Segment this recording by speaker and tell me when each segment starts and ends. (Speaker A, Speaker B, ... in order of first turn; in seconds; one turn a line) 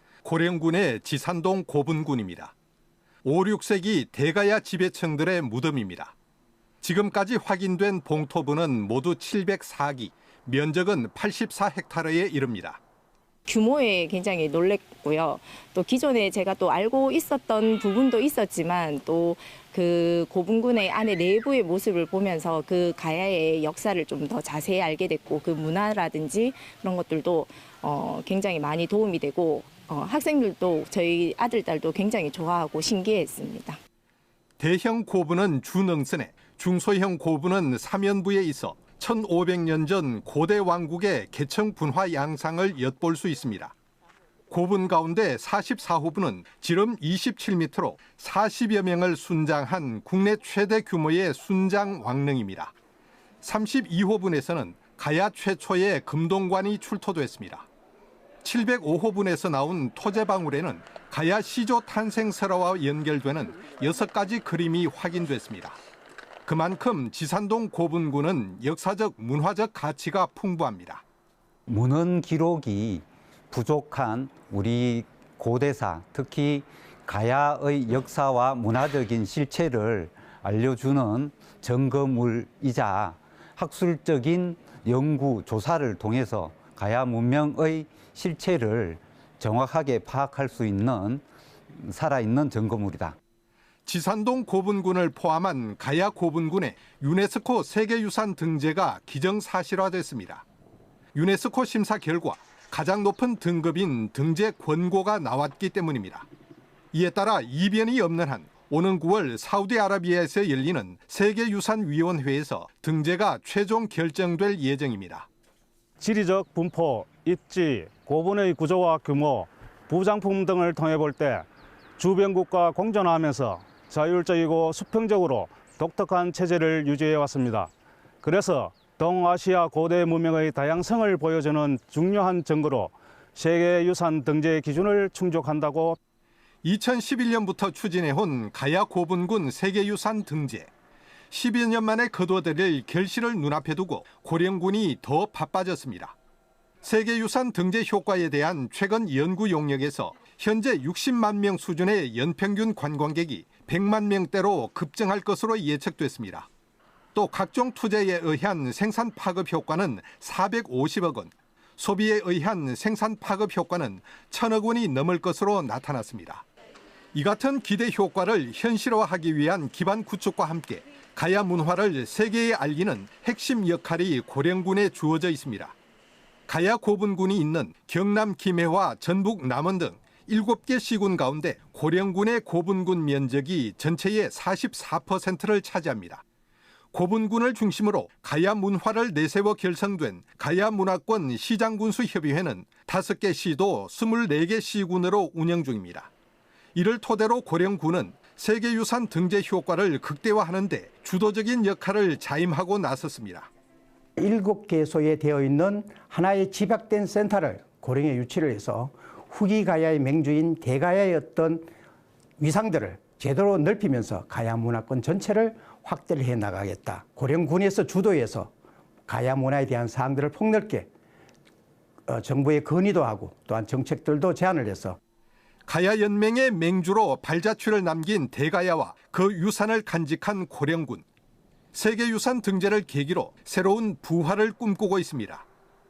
Speaker A: 0.2-2.5
Speaker A: 3.2-6.2
Speaker A: 6.8-12.8
Speaker B: 13.5-33.8
Speaker A: 34.6-43.7
Speaker A: 44.5-52.7
Speaker A: 53.4-57.7
Speaker A: 58.4-65.8
Speaker A: 66.5-71.0
Speaker C: 71.7-93.2
Speaker A: 93.9-100.4
Speaker A: 101.2-106.3
Speaker A: 106.9-115.3
Speaker D: 116.0-121.5
Speaker D: 122.0-127.7
Speaker D: 128.2-136.0
Speaker A: 136.6-140.7
Speaker A: 141.3-146.2
Speaker A: 146.8-156.5
Speaker A: 157.1-166.5
Speaker A: 167.1-175.8
Speaker A: 176.5-186.2
Speaker A: 186.9-196.1
Speaker A: 196.8-203.5
Speaker E: 204.2-211.7
Speaker E: 212.4-218.5
Speaker E: 219.1-220.9
Speaker E: 222.1-225.0
Speaker A: 225.7-231.1
Speaker A: 231.7-235.4